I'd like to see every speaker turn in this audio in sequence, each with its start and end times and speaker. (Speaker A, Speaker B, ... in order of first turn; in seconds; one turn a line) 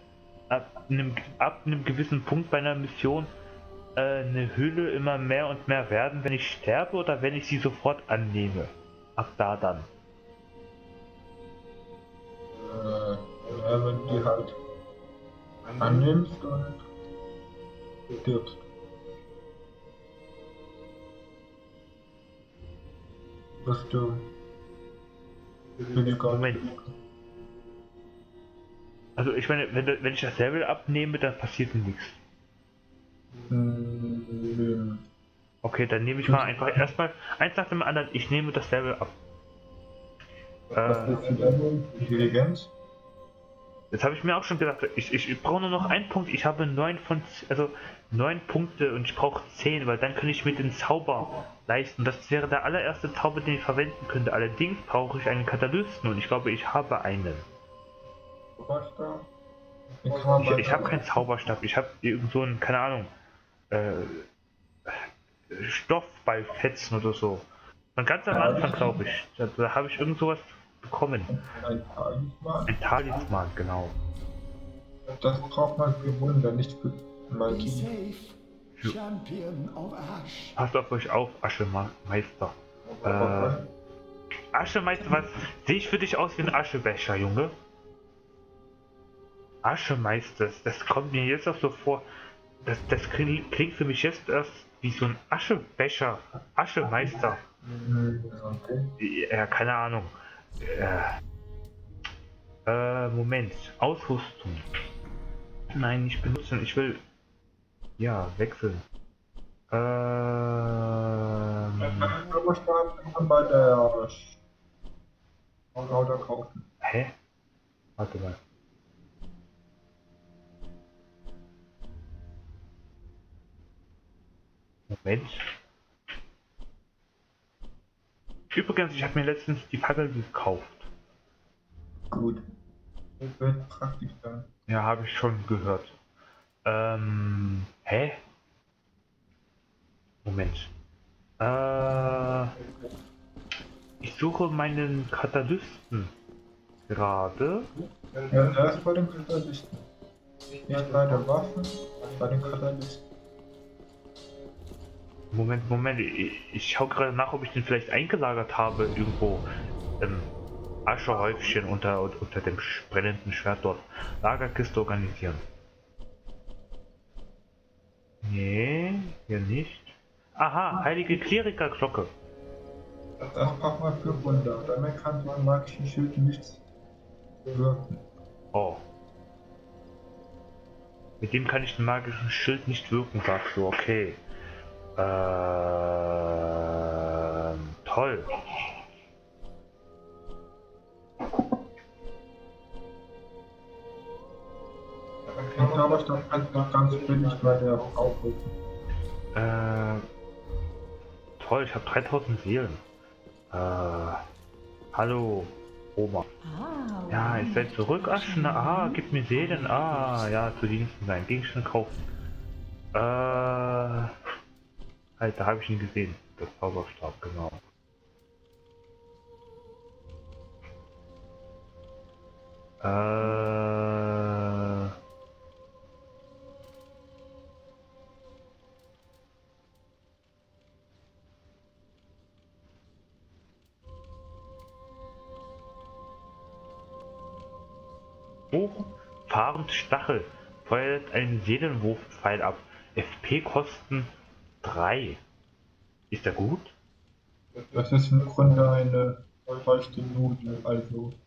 Speaker A: 0.5-3.3
Speaker A: 4.0-9.9
Speaker B: 12.7-14.6
Speaker B: 15.8-16.8
Speaker B: 18.2-18.6
Speaker B: 23.6-24.3
Speaker B: 25.9-26.9
Speaker A: 26.3-26.7
Speaker A: 29.2-32.2
Speaker B: 33.5-35.0
Speaker A: 35.6-39.1
Speaker B: 36.2-36.7
Speaker A: 40.7-41.2
Speaker B: 40.8-42.7
Speaker A: 43.9-57.5
Speaker B: 58.6-59.3
Speaker B: 60.0-61.1
Speaker A: 60.4-63.1
Speaker A: 63.7-64.3
Speaker A: 65.5-67.5
Speaker A: 68.0-71.3
Speaker B: 68.3-69.0
Speaker B: 71.3-72.7
Speaker A: 72.7-73.9
Speaker B: 75.2-77.9
Speaker C: 77.4-80.6
Speaker A: 80.6-83.6
Speaker B: 83.1-83.7
Speaker A: 84.5-87.5
Speaker A: 89.6-92.0
Speaker A: 92.6-97.4
Speaker B: 97.8-98.9
Speaker A: 99.0-101.2
Speaker A: 102.7-104.6
Speaker A: 105.7-107.0
Speaker A: 108.0-108.8
Speaker A: 109.7-112.2
Speaker B: 111.9-114.4
Speaker B: 115.9-116.6
Speaker A: 116.8-117.1
Speaker A: 118.0-118.4
Speaker A: 124.9-125.5
Speaker A: 128.5-130.9
Speaker B: 132.1-132.4
Speaker B: 133.3-134.5
Speaker A: 134.7-135.9
Speaker A: 136.7-138.2
Speaker A: 140.2-140.7
Speaker A: 141.4-142.6
Speaker A: 144.0-146.1
Speaker A: 146.9-147.7
Speaker B: 148.3-149.9
Speaker B: 150.7-153.0
Speaker A: 155.3-159.5
Speaker A: 160.0-160.3
Speaker A: 160.9-165.4
Speaker A: 168.2-172.1
Speaker B: 173.3-176.6
Speaker B: 177.5-178.0
Speaker A: 178.5-178.8
Speaker A: 181.2-184.2
Speaker A: 185.0-188.4
Speaker B: 195.5-198.5
Speaker A: 199.3-200.1
Speaker A: 201.4-202.8
Speaker A: 203.5-204.2
Speaker A: 204.9-206.3
Speaker D: 206.4-210.5
Speaker A: 207.1-212.1
Speaker A: 212.9-214.1
Speaker A: 215.2-217.6
Speaker A: 222.8-224.9
Speaker A: 238.5-244.1
Speaker A: 244.6-245.2
Speaker A: 246.1-246.7
Speaker B: 247.7-251.2